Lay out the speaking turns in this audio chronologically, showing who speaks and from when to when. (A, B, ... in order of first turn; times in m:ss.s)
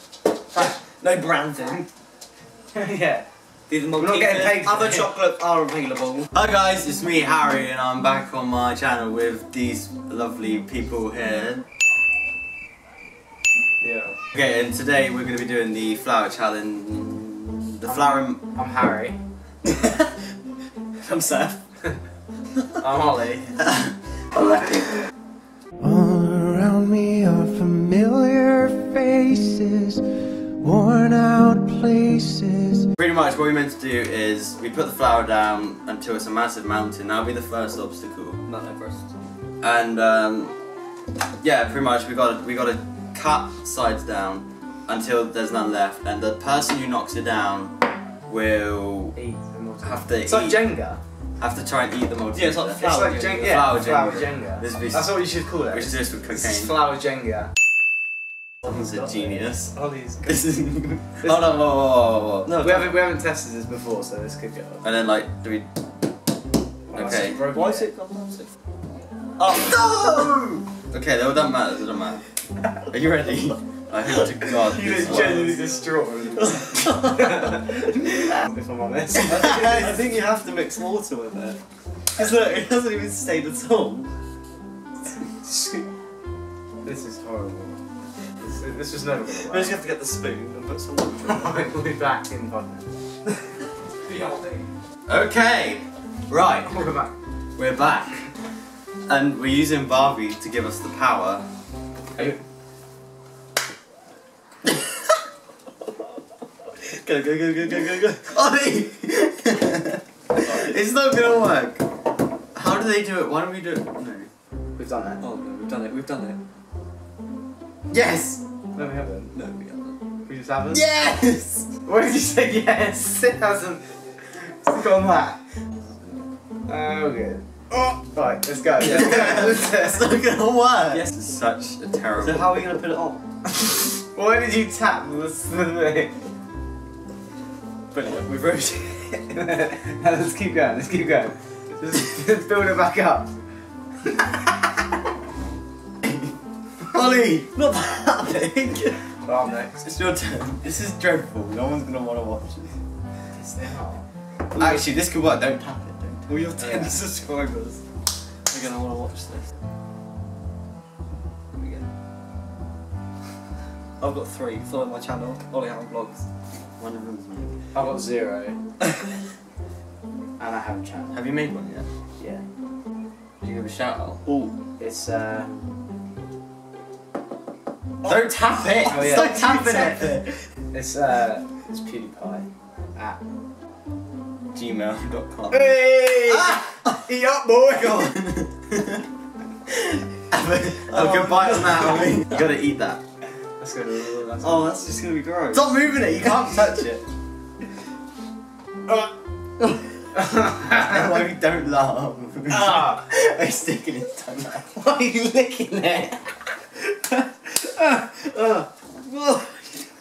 0:00.5-0:01.9 A
0:02.8-0:03.3 B
0:03.7-0:06.3 A
0:03.9-0:05.1 B
0:06.3-0:11.7 C
0:13.8-0:14.2 B
0:14.3-0:18.4 C
0:17.9-0:19.2 B
0:19.6-0:20.1 C
0:21.0-0:21.6 C
0:22.8-0:23.6 B
0:23.6-0:25.0 C
0:25.8-0:30.0 D
0:30.6-0:32.9 D
0:33.0-0:38.4 C
0:38.5-0:39.0 A
0:39.6-0:40.6 C
0:41.4-0:47.8 C
0:48.3-0:49.2 C
0:49.2-0:51.0 B
0:49.8-0:50.6 C
0:51.4-0:56.8 C
0:52.4-0:53.7 A
0:52.8-0:57.5 B
0:58.6-0:59.7 C
1:00.2-1:02.5 C
1:02.5-1:02.9 A
1:02.6-1:04.8 B
1:04.8-1:05.7 C
1:06.9-1:07.9 B
1:06.9-1:07.4 C
1:07.5-1:08.5 A
1:09.4-1:10.6 A
1:10.9-1:12.2 C
1:12.8-1:15.4 C
1:14.6-1:19.8 B
1:14.8-1:17.6 A
1:19.2-1:21.6 A
1:22.1-1:24.1 A
1:25.4-1:25.8 B
1:26.8-1:27.8 B
1:28.4-1:29.8 B
1:29.4-1:31.7 A
1:31.2-1:32.9 B
1:34.0-1:34.7 A
1:35.1-1:36.8 C
1:36.6-1:37.1 B
1:37.6-1:38.3 C
1:39.1-1:41.4 C
1:46.8-1:48.3 A
1:48.2-1:51.8 C
1:52.6-1:54.3 C
1:54.8-1:55.2 B
1:55.2-1:56.4 A
1:57.9-1:58.4 C
1:58.8-1:59.3 B
1:59.4-2:00.0 A
2:00.3-2:00.8 B
2:00.7-2:01.7 C
2:01.9-2:05.4 B
2:06.7-2:10.1 B
2:08.8-2:12.7 C
2:12.2-2:13.2 A
2:13.7-2:16.2 B
2:17.9-2:19.4 A
2:19.4-2:23.3 B
2:26.9-2:27.5 C
2:27.6-2:29.0 A
2:29.2-2:29.9 B
2:29.8-2:32.7 C
2:33.3-2:34.1 B
2:34.6-2:37.0 C
2:36.3-2:37.8 A
2:38.5-2:39.4 A
2:41.5-2:41.9 A
2:44.0-2:46.2 A
2:46.8-2:47.6 C
2:47.7-2:48.6 B
2:50.4-2:51.1 B
2:51.1-2:51.9 C
2:52.2-2:52.4 B
2:53.4-2:54.2 C
2:54.3-2:54.5 A
2:54.8-2:55.6 B
2:58.0-3:00.4 C
2:58.8-3:03.2 B
3:04.5-3:05.5 C
3:05.2-3:05.5 A
3:05.5-3:08.1 B
3:06.3-3:07.0 C
3:07.8-3:09.0 C
3:09.7-3:13.0 C
3:10.9-3:12.3 A
3:13.6-3:14.9 B
3:14.4-3:15.7 A
3:15.5-3:17.1 C
3:20.5-3:24.7 C
3:24.7-3:26.6 B
3:29.1-3:29.8 A